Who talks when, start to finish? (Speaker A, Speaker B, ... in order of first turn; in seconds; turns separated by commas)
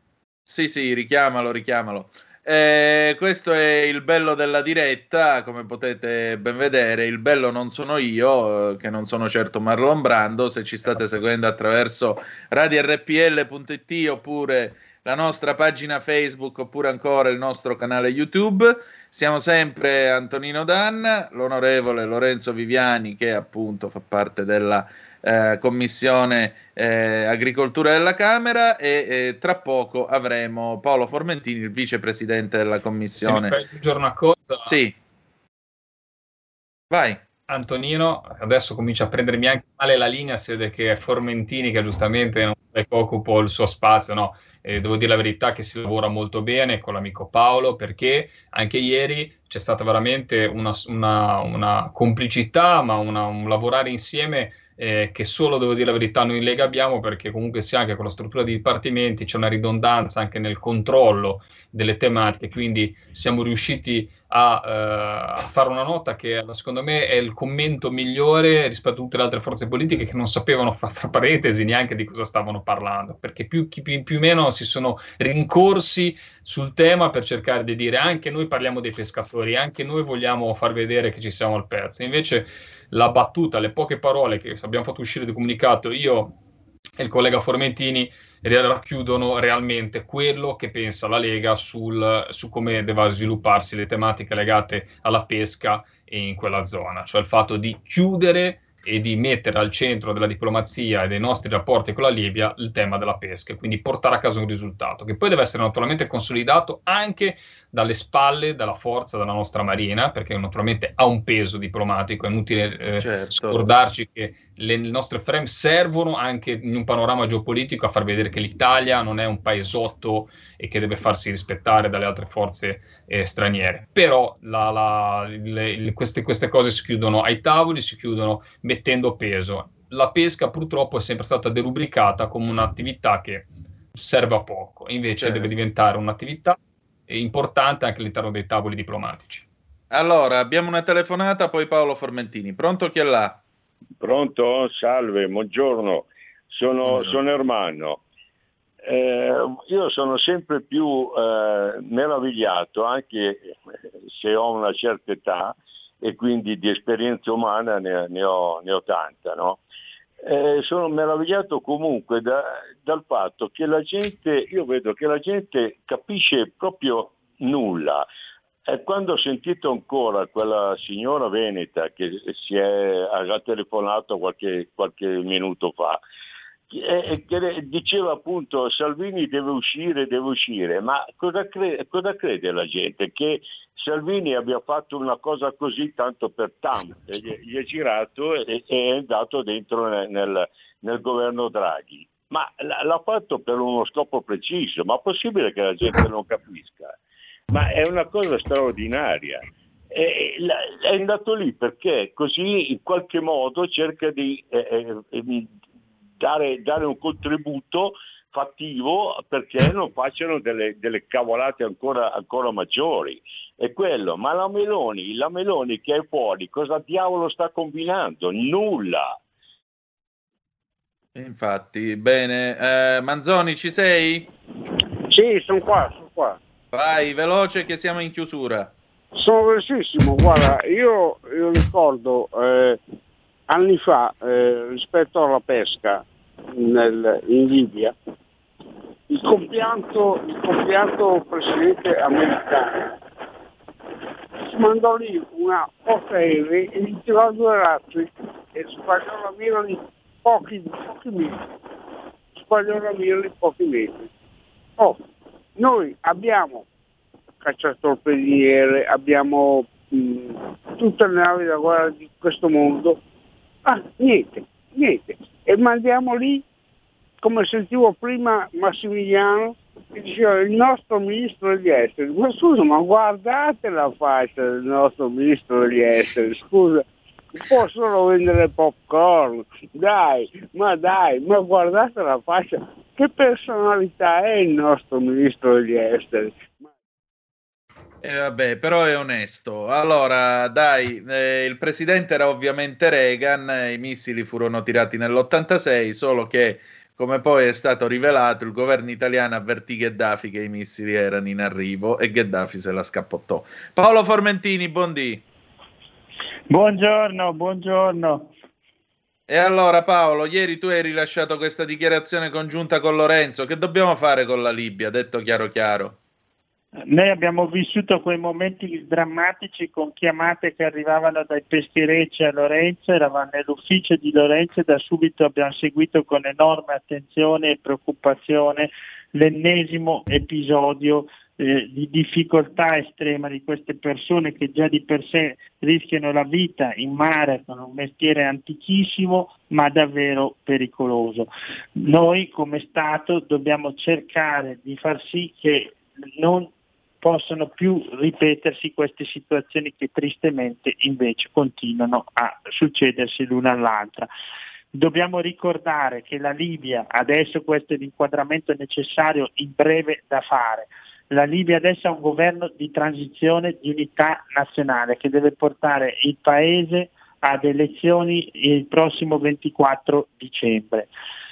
Speaker A: 0.5-33.6, Speaker B: 33.2-34.8, Speaker A: 34.6-34.9, Speaker A: 36.9-37.2, Speaker B: 37.5-86.4, Speaker B: 87.0-139.4, Speaker A: 113.0-113.7, Speaker A: 135.2-135.5, Speaker A: 139.9-143.4, Speaker C: 144.0-148.0, Speaker A: 146.8-147.1, Speaker C: 148.8-159.6, Speaker C: 160.2-168.1, Speaker C: 168.7-176.0, Speaker C: 176.7-197.0, Speaker C: 197.5-205.5, Speaker C: 206.2-219.2, Speaker A: 221.1-224.3, Speaker D: 225.1-226.4, Speaker A: 226.7-228.7, Speaker D: 229.1-232.8, Speaker D: 233.5-237.9, Speaker D: 239.1-243.0, Speaker D: 244.4-251.4, Speaker D: 252.4-254.1, Speaker D: 255.6-256.6, Speaker D: 257.4-263.0, Speaker D: 263.6-266.4, Speaker D: 267.2-286.7, Speaker A: 288.0-305.2, Speaker E: 306.5-308.3, Speaker A: 309.3-316.0, Speaker E: 316.9-346.5, Speaker E: 347.0-354.1, Speaker E: 354.7-370.9